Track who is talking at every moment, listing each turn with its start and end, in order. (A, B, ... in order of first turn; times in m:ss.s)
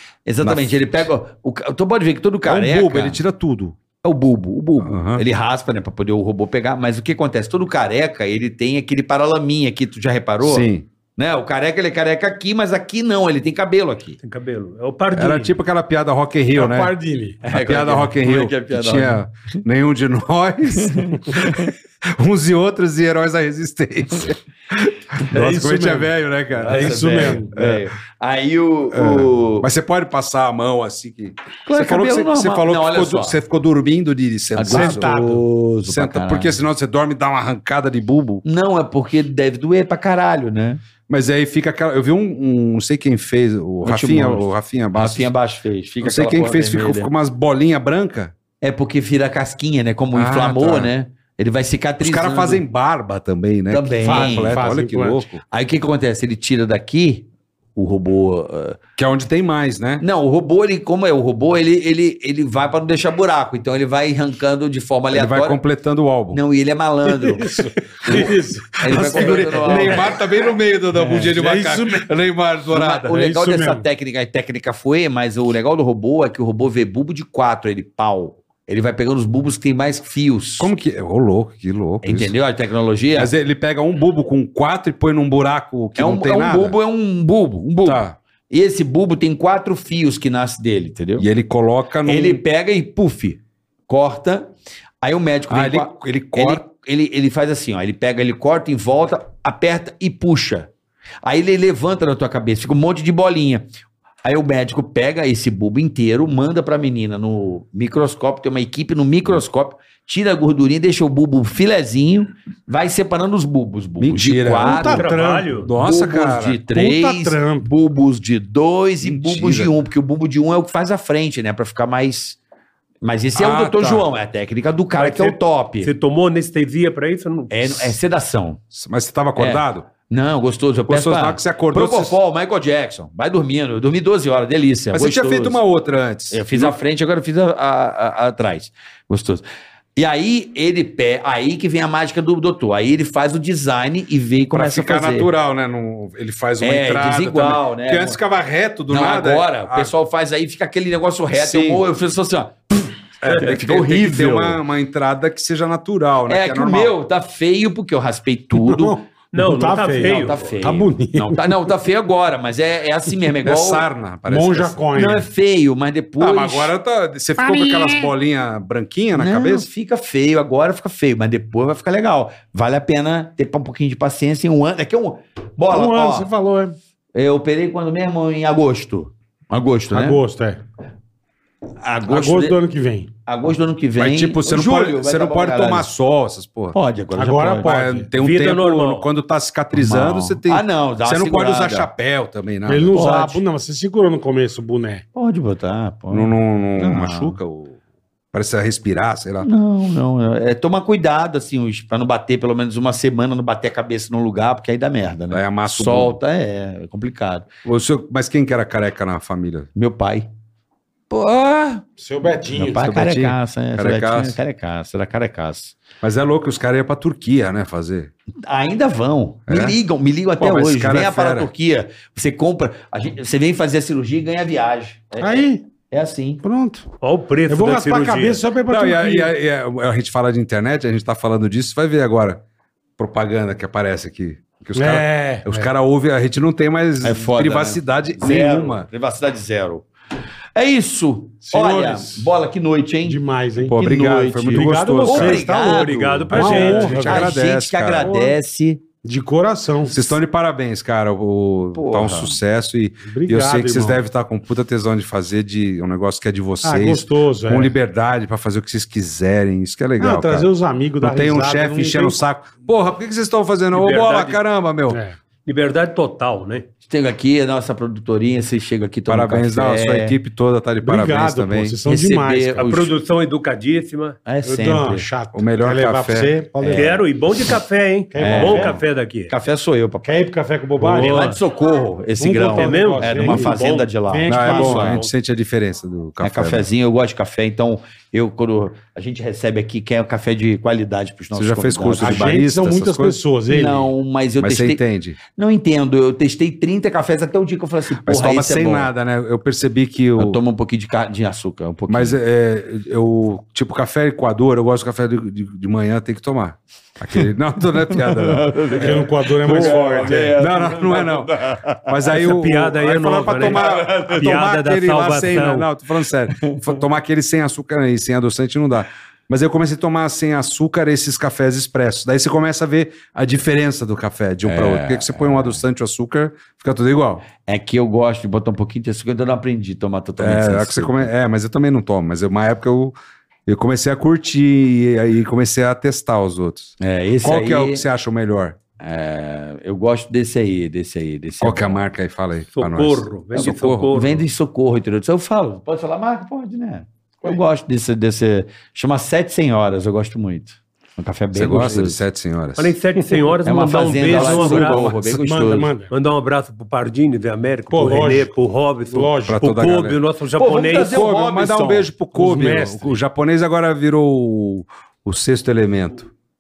0:00.3-0:03.2 A
0:00.4-0:00.8 B
0:02.5-0:03.8 B
0:04.0-0:14.2 A
0:04.8-0:05.2 B
0:10.4-0:10.9 B
0:14.2-0:15.5 C
0:15.1-0:16.9 B
0:16.5-0:17.4 D
0:17.4-0:19.2 A
0:17.4-0:27.9 B
0:20.8-0:21.7 A
0:25.3-0:26.1 D
0:26.5-0:29.7 A
0:26.7-0:27.5 D
0:28.9-0:35.2 B
0:31.7-0:33.4 A
0:34.6-0:36.6 A
0:34.7-0:35.4 D
0:35.9-0:38.4 B
0:38.4-0:40.8 A
0:41.1-0:45.3 B
0:43.8-0:47.1 A
0:46.0-0:48.3 B
0:48.6-0:52.6 A
0:50.1-0:50.9 B
0:52.0-0:55.4 B
0:53.7-0:54.8 A
0:54.0-0:55.2 D
0:55.5-0:57.2 A
0:57.8-0:58.8 A
0:59.0-1:00.0 B
1:00.0-1:05.6 A
1:05.1-1:06.4 B
1:06.3-1:10.2 A
1:07.0-1:10.2 D
1:08.8-1:13.2 B
1:11.0-1:11.3 A
1:11.3-1:12.1 D
1:12.7-1:20.7 A
1:13.1-1:13.8 D
1:20.6-1:22.3 B
1:22.0-1:23.3 A
1:23.2-1:26.8 B
1:26.0-1:31.3 A
1:27.8-1:28.2 B
1:31.2-1:32.4 B
1:32.1-1:40.7 A
1:35.5-1:36.6 B
1:41.2-1:43.7 A
1:44.2-1:55.1 A
1:54.0-1:55.0 B
1:54.6-1:55.6 D
1:54.9-1:55.7 C
1:55.6-1:56.6 B
1:55.8-2:02.4 A
1:56.7-1:57.7 D
1:59.0-1:59.7 B
2:03.0-2:05.9 A
2:03.4-2:04.1 B
2:05.0-2:07.9 C
2:07.5-2:08.6 A
2:08.7-2:09.9 B
2:09.4-2:15.6 A
2:10.9-2:12.2 B
2:14.9-2:16.8 B
2:16.3-2:19.4 A
2:20.0-2:25.3 A
2:24.5-2:29.9 B
2:26.6-2:28.2 A
2:28.9-2:34.6 A
2:31.4-2:31.8 B
2:33.2-2:36.9 B
2:36.3-2:39.0 A
2:38.6-2:41.5 D
2:39.3-2:40.5 C
2:39.9-2:43.9 A
2:43.4-2:45.1 B
2:44.3-2:45.3 D
2:45.0-2:46.7 A
2:46.2-2:49.7 B
2:49.2-2:56.3 A
2:55.7-2:56.8 D
2:57.2-3:00.2 A
2:59.9-3:00.6 D
3:01.8-3:02.6 A
3:02.1-3:03.1 D
3:03.3-3:05.9 A
3:04.0-3:06.8 B
3:06.7-3:07.7 A
3:07.2-3:08.1 D
3:07.6-3:13.0 B
3:08.2-3:09.1 C
3:09.7-3:11.9 A
3:12.7-3:15.0 D
3:12.9-3:13.4 A
3:15.2-3:17.4 A
3:16.1-3:17.8 B
3:18.3-3:19.5 B
3:19.4-3:27.5 A
3:25.3-3:26.2 B
3:27.6-3:29.7 B
3:29.8-3:30.3 A
3:31.1-3:31.8 A
3:32.0-3:32.9 D
3:32.5-3:35.8 A
3:32.8-3:34.4 B
3:36.0-3:38.1 B
3:38.4-3:46.4 A
3:39.5-3:39.8 B
3:40.4-3:41.5 B
3:45.2-3:45.6 D
3:46.4-3:46.9 D
3:47.0-3:48.4 C
3:47.5-3:49.3 D
3:48.7-3:52.4 B
3:53.0-3:58.9 B
3:54.8-3:55.7 D
3:57.0-3:59.9 A
4:00.6-4:08.8 A
4:01.4-4:02.3 D
4:03.0-4:03.8 D
4:03.6-4:05.4 B
4:04.5-4:07.4 D
4:05.4-4:07.1 C
4:06.0-4:08.1 B
4:08.0-4:08.4 D
4:09.0-4:10.2 D
4:09.9-4:20.5 B
4:11.8-4:12.4 A
4:13.0-4:14.0 D
4:16.6-4:17.7 D
4:20.0-4:22.2 D
4:21.0-4:25.0 B
4:23.7-4:24.4 C
4:24.9-4:25.2 D
4:25.4-4:26.7 C
4:26.9-4:30.2 A
4:29.1-4:31.8 B
4:30.8-4:32.7 D
4:31.9-4:32.9 A
4:32.6-4:34.2 C
4:34.3-4:35.1 A
4:34.4-4:37.0 D
4:35.3-4:36.3 B
4:36.6-4:37.0 A
4:36.8-4:39.3 C
4:38.1-4:38.8 D
4:38.2-4:40.1 A
4:40.0-4:41.3 D
4:40.8-4:41.4 C
4:41.0-4:45.0 A
4:42.2-4:45.0 D
4:42.5-4:43.8 C
4:44.3-4:46.7 B
4:46.2-4:52.4 A
4:51.4-4:53.2 B
4:52.0-4:53.9 D
4:53.5-4:58.9 A
4:54.4-4:55.2 B
4:58.0-5:00.4 B
5:00.2-5:02.2 A
5:01.9-5:27.2 B
5:07.9-5:12.2 A
5:08.7-5:10.4 D
5:12.1-5:15.7 C
5:13.3-5:14.3 A
5:16.4-5:16.7 A
5:24.5-5:25.6 A
5:27.4-5:31.1 A
5:30.2-5:33.0 B
5:33.5-5:36.7 B
5:36.8-5:37.8 A
5:37.2-5:38.6 B
5:38.8-5:41.8 A
5:41.4-5:43.9 B
5:42.6-5:44.2 C
5:43.4-5:52.0 A
5:51.3-5:52.7 B
5:52.6-5:55.0 C
5:53.4-5:55.7 A
5:54.1-5:55.0 B
5:54.4-5:55.9 D
5:55.9-6:01.0 C
5:57.7-5:58.3 D
5:58.9-5:59.4 D
5:59.3-6:00.0 B
6:00.4-6:01.9 A
6:00.7-6:06.1 B
6:02.2-6:03.0 D